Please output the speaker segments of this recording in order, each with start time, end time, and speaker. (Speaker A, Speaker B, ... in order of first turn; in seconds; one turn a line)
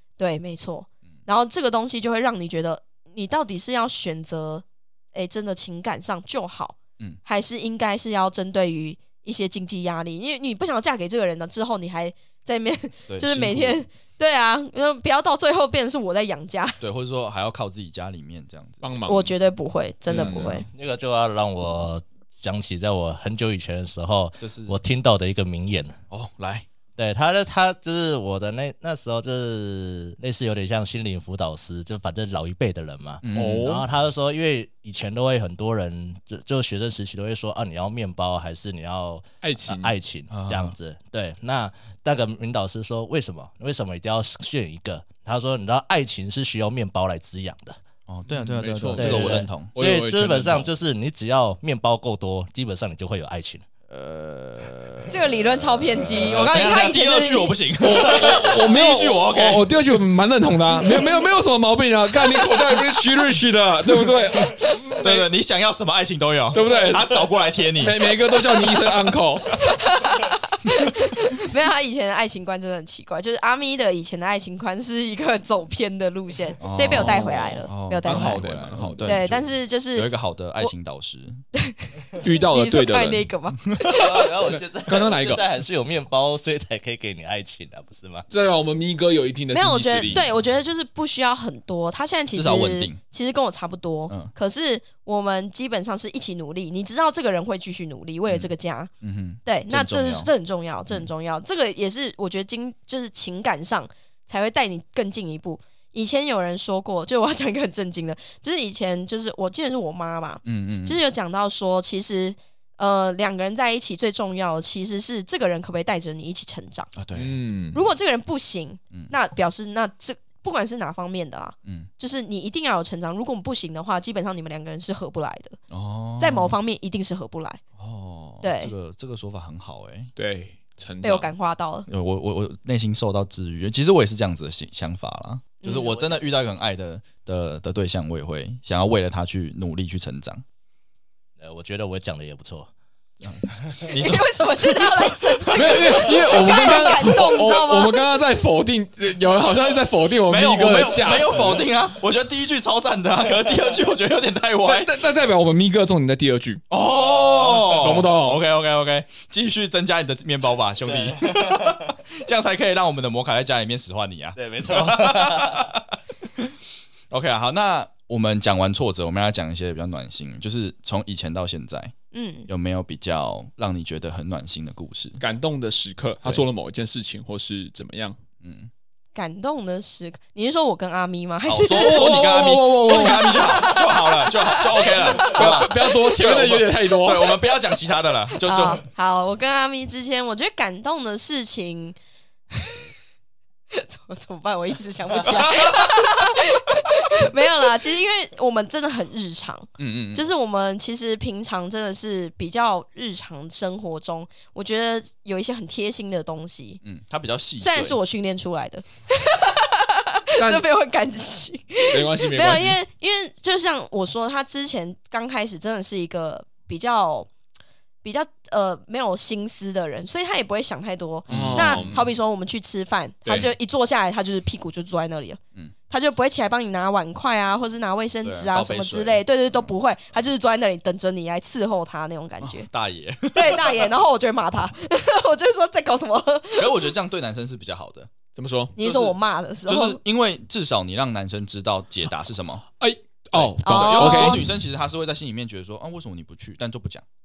Speaker A: 0.2-16.8
Speaker B: 13.1-13.8
Speaker B: 16.8-18.8
Speaker C: 18.8-19.3
Speaker A: 19.1-20.7
Speaker C: 20.1-20.6
Speaker B: 20.1-20.6
Speaker D: 20.7-26.0
Speaker B: 24.4-24.8
Speaker B: 26.1-26.6
Speaker D: 27.0-47.8
Speaker B: 33.2-33.8
Speaker C: 33.3-33.9
Speaker C: 39.4-39.9
Speaker B: 40.3-40.8
Speaker B: 48.1-49.7
Speaker C: 48.3-50.7
Speaker D: 48.9-53.6
Speaker B: 53.9-59.7
Speaker A: 55.1-57.6
Speaker C: 57.8-65.3
Speaker B: 65.0-68.2
Speaker C: 66.5-69.6
Speaker A: 69.6-78.5
Speaker B: 76.6-81.4
Speaker C: 76.8-79.2
Speaker A: 79.0-80.7
Speaker A: 81.5-84.3
Speaker C: 82.2-83.3
Speaker D: 83.9-88.2
Speaker C: 84.4-85.5
Speaker C: 88.3-90.2
Speaker A: 89.5-98.9
Speaker B: 90.0-90.3
Speaker B: 92.3-93.0
Speaker B: 99.0-100.3
Speaker A: 99.4-116.9
Speaker B: 110.4-111.0
Speaker B: 116.9-117.4
Speaker C: 117.1-117.8
Speaker A: 117.7-125.6
Speaker B: 125.7-126.6
Speaker A: 126.2-127.6
Speaker B: 127.8-130.1
Speaker A: 128.4-128.7
Speaker C: 130.2-131.3
Speaker A: 131.0-131.9
Speaker B: 131.9-140.4
Speaker A: 135.6-136.0
Speaker D: 141.4-142.7
Speaker B: 143.2-146.2
Speaker A: 143.9-148.0
Speaker C: 145.5-151.5
Speaker B: 150.3-155.0
Speaker C: 154.6-156.6
Speaker B: 156.7-166.5
Speaker C: 157.7-158.4
Speaker D: 160.9-161.7
Speaker D: 164.3-165.7
Speaker B: 167.1-171.9
Speaker A: 172.1-172.5
Speaker B: 172.5-175.2
Speaker C: 175.2-178.2
Speaker B: 178.4-178.7
Speaker A: 179.1-182.2
Speaker B: 181.4-188.8
Speaker C: 181.7-183.6
Speaker A: 182.9-185.6
Speaker C: 185.2-187.4
Speaker A: 188.4-192.0
Speaker A: 192.5-192.8
Speaker A: 193.7-206.8
Speaker B: 195.2-196.1
Speaker B: 199.8-200.3
Speaker B: 206.8-208.0
Speaker A: 207.6-217.3
Speaker C: 210.4-210.7
Speaker C: 211.9-212.8
Speaker A: 218.0-232.7
Speaker C: 221.3-222.0
Speaker B: 221.3-222.1
Speaker C: 223.2-223.5
Speaker B: 228.2-229.7
Speaker B: 232.4-233.9
Speaker A: 233.3-236.7
Speaker B: 236.6-238.1
Speaker C: 238.3-238.8
Speaker A: 238.8-240.0
Speaker B: 238.8-242.6
Speaker C: 242.8-244.5
Speaker B: 243.3-247.0
Speaker A: 243.6-244.4